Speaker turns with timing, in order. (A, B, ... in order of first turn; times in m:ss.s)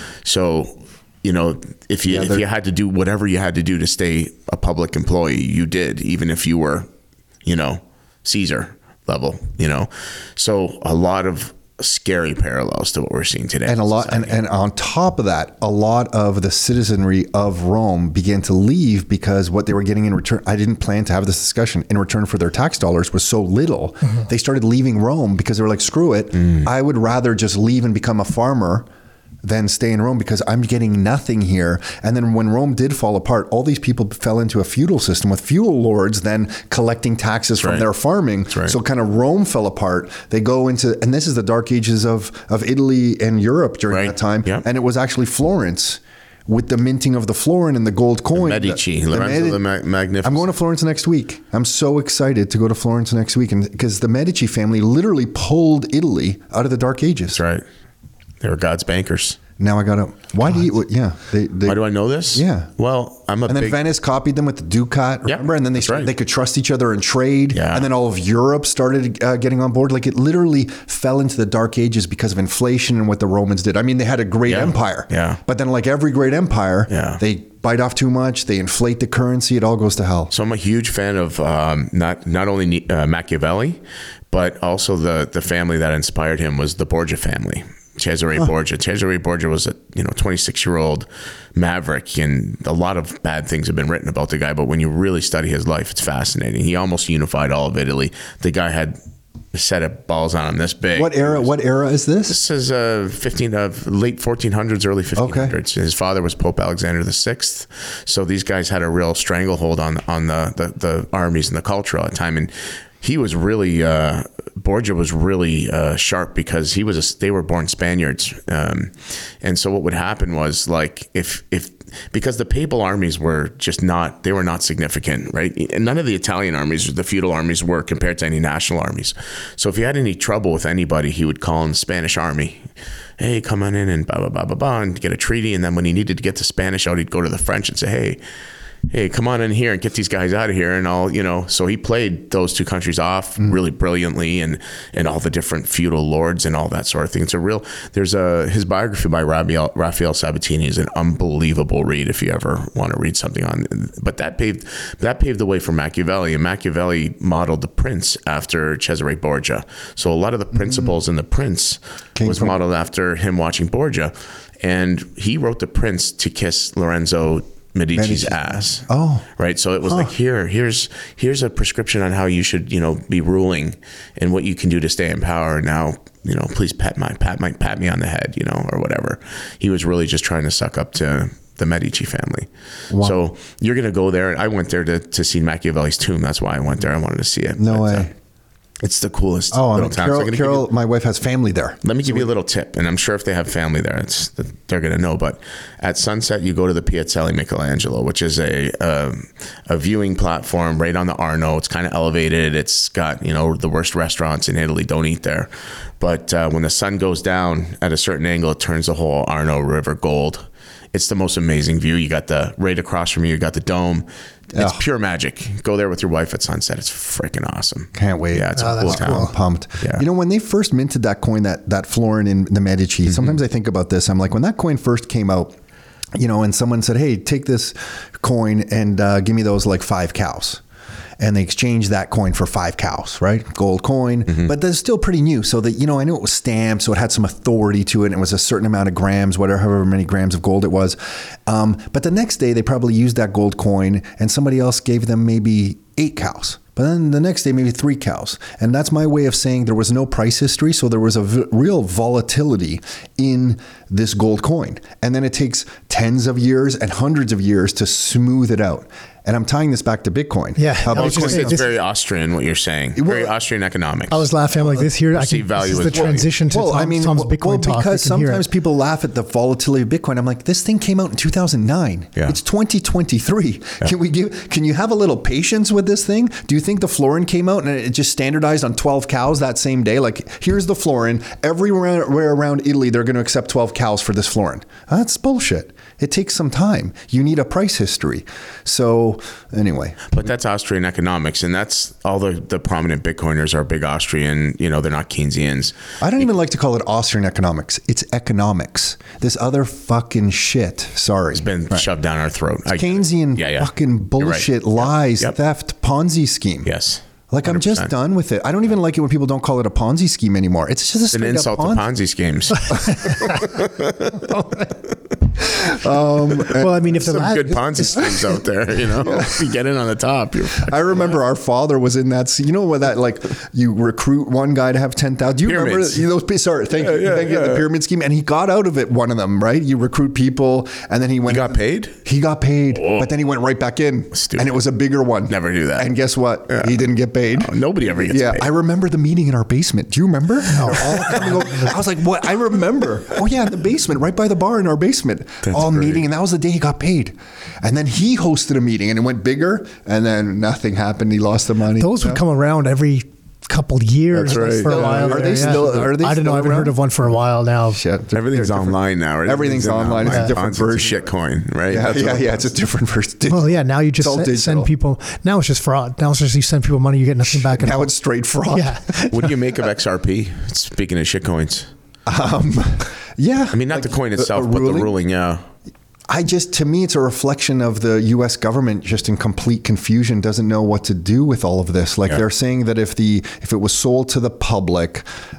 0:00.2-0:06.9 A
0:02.1-0:02.4 B
0:07.4-0:14.4 A
0:13.7-0:28.9 B
0:26.4-0:26.7 A
0:29.4-0:49.6 B
0:37.6-0:37.8 A
0:38.5-0:38.8 A
0:43.9-0:44.6 A
0:48.3-0:50.5 A
0:50.2-0:57.4 B
0:57.3-0:57.6 A
0:58.4-0:59.4 A
0:59.6-1:01.8 B
1:01.6-1:03.8 A
1:02.3-1:02.7 B
1:03.5-1:20.3 B
1:05.3-1:06.1 A
1:07.5-1:07.9 A
1:14.5-1:15.4 A
1:16.9-1:17.2 A
1:20.3-1:23.8 A
1:24.3-1:39.0 A
1:39.5-1:41.5 A
1:41.0-1:42.4 B
1:42.3-2:12.6 A
1:45.2-1:45.5 B
2:13.2-2:18.2 A
2:18.9-2:48.8 A
2:40.6-2:40.9 B
2:42.2-2:42.6 B
2:48.0-2:49.3 B
2:49.4-3:08.1 A
2:49.8-2:50.1 B
3:02.9-3:03.2 B
3:07.6-3:08.1 B
3:08.8-3:10.7 A
3:09.5-3:12.3 B
3:11.8-3:40.0 A
3:34.5-3:34.8 B
3:38.0-3:45.6 B
3:38.6-3:39.3 C
3:43.1-3:43.3 A
3:46.2-3:50.6 B
3:51.2-4:21.6 B
4:20.6-4:21.7 C
4:20.9-4:26.3 A
4:23.0-4:23.3 B
4:24.1-4:28.4 C
4:25.9-4:50.0 B
4:50.1-4:55.8 A
4:56.0-5:01.9 B
5:01.3-5:05.3 A
5:02.7-5:06.7 B
5:06.6-5:07.9 A
5:07.3-5:11.8 B
5:11.1-5:14.3 A
5:15.4-5:16.8 B
5:16.5-5:18.2 C
5:16.8-5:20.8 A
5:19.0-5:19.5 B
5:20.6-5:52.2 B
5:25.4-5:26.0 A
5:26.8-5:27.7 A
5:31.3-5:32.0 A
5:32.8-5:33.1 A
5:34.2-5:34.5 A
5:35.3-5:35.9 A
5:36.5-5:38.5 A
5:40.5-5:41.7 C
5:40.9-5:41.3 A
5:45.5-5:46.0 A
5:51.8-5:57.8 C
5:54.1-5:55.9 A
5:54.3-5:56.8 B
5:57.7-6:01.0 B
5:58.1-6:02.3 A
6:00.0-6:00.3 C
6:01.7-6:04.7 B
6:03.3-6:07.9 C
6:07.2-6:09.3 B
6:08.5-6:09.3 C
6:09.1-6:11.7 A
6:12.1-6:14.9 B
6:13.5-6:15.4 A
6:16.1-6:25.0 B